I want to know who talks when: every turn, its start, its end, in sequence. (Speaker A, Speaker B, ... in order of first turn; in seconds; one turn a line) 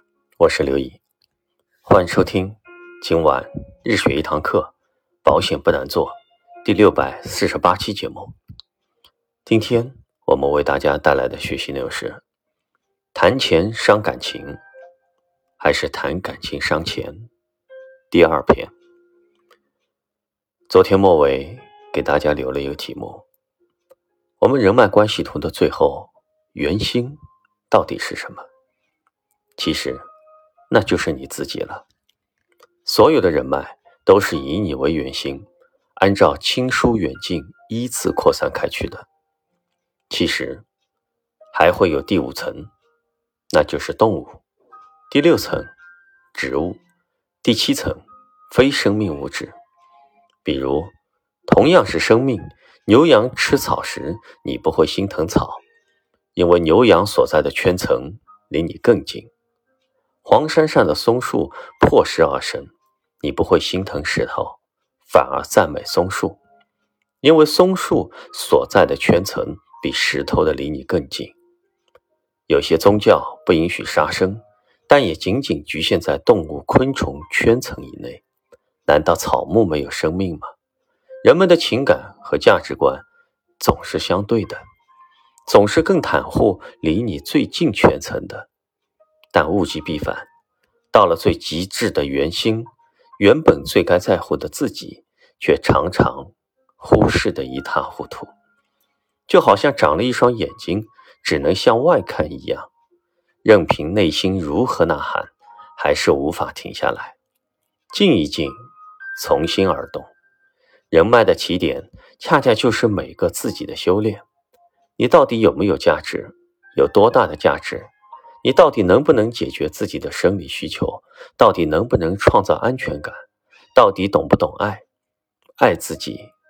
Speaker A: 0.4-1.0
Speaker A: 1.8-4.7
Speaker A: 5.2-8.3
Speaker A: 9.4-12.2
Speaker A: 13.1-14.6
Speaker A: 15.6-17.3
Speaker A: 18.1-18.7
Speaker A: 20.7-23.2
Speaker A: 24.4-28.4
Speaker A: 29.6-30.0
Speaker A: 30.7-31.8
Speaker A: 32.8-39.1
Speaker A: 40.1-40.6
Speaker A: 41.5-42.7
Speaker A: 43.5-44.4
Speaker A: 45.1-45.7
Speaker A: 46.3-46.8
Speaker A: 47.4-49.5
Speaker A: 50.4-50.9
Speaker A: 51.5-55.6
Speaker A: 56.3-59.3
Speaker A: 60.2-66.4
Speaker A: 67.2-71.3
Speaker A: 72.5-78.2
Speaker A: 78.8-80.5
Speaker A: 81.2-83.0
Speaker A: 83.6-84.6
Speaker A: 85.5-88.5
Speaker A: 89.3-90.3
Speaker A: 90.9-98.3
Speaker A: 99.3-102.7
Speaker A: 103.4-107.2
Speaker A: 107.9-108.6
Speaker A: 109.2-110.1
Speaker A: 110.9-114.2
Speaker A: 115.0-117.9
Speaker A: 118.4-124.8
Speaker A: 125.6-126.3